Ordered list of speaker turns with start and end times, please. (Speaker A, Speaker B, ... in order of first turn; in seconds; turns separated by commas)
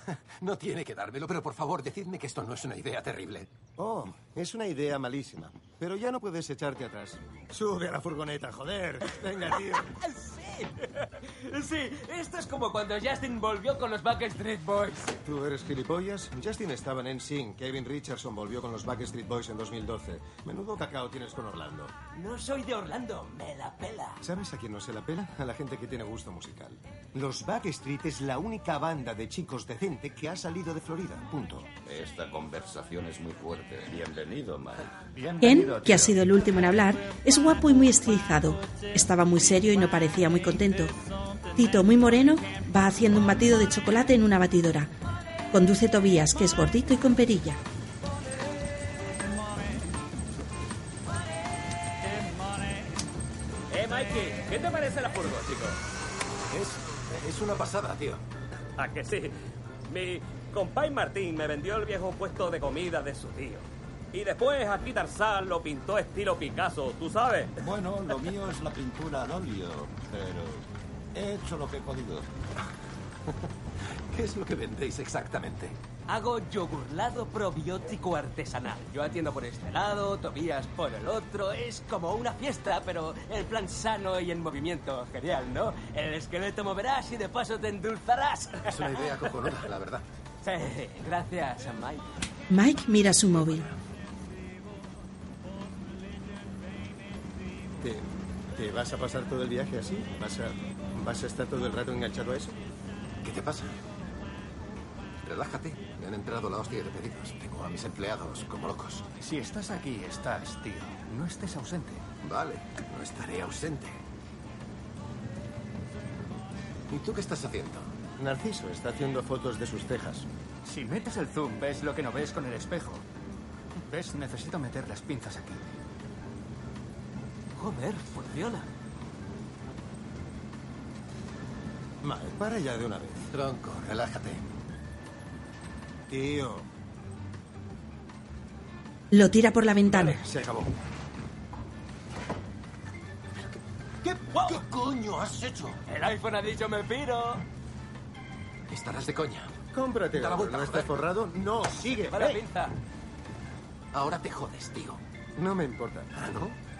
Speaker A: 0.3-3.5, Speaker B: 3.8-9.9, Speaker C: 10.1-15.2, Speaker B: 15.2-21.9, Speaker C: 22.1-24.2, Speaker B: 24.2-31.7, Speaker D: 31.8-34.9, Speaker E: 35.1-36.5, Speaker F: 35.4-40.9, Speaker F: 41.5-44.9, Speaker F: 45.5-47.6, Speaker G: 53.7-55.8, Speaker A: 56.5-58.2, Speaker G: 58.8-59.4, Speaker G: 59.9-67.5, Speaker D: 67.6-72.3, Speaker A: 73.9-75.8, Speaker C: 76.1-88.9, Speaker A: 88.7-90.0, Speaker C: 90.4-92.1, Speaker F: 92.5-93.7, Speaker B: 97.8-102.6, Speaker A: 103.2-103.8, Speaker A: 105.2-109.0, Speaker E: 109.2-112.0, Speaker A: 112.2-114.0, Speaker A: 116.9-117.9, Speaker B: 118.2-120.3, Speaker E: 120.6-123.0, Speaker E: 123.8-125.6, Speaker C: 127.6-128.7, Speaker B: 132.0-133.2, Speaker A: 133.3-134.4, Speaker B: 136.1-136.7, Speaker F: 139.1-140.2, Speaker B: 140.0-140.7, Speaker A: 144.0-145.8, Speaker C: 145.9-147.4, Speaker A: 148.7-149.6, Speaker B: 149.7-152.4, Speaker A: 150.1-150.9, Speaker C: 151.9-152.8, Speaker A: 153.9-155.0, Speaker B: 155.3-156.2, Speaker A: 156.1-156.6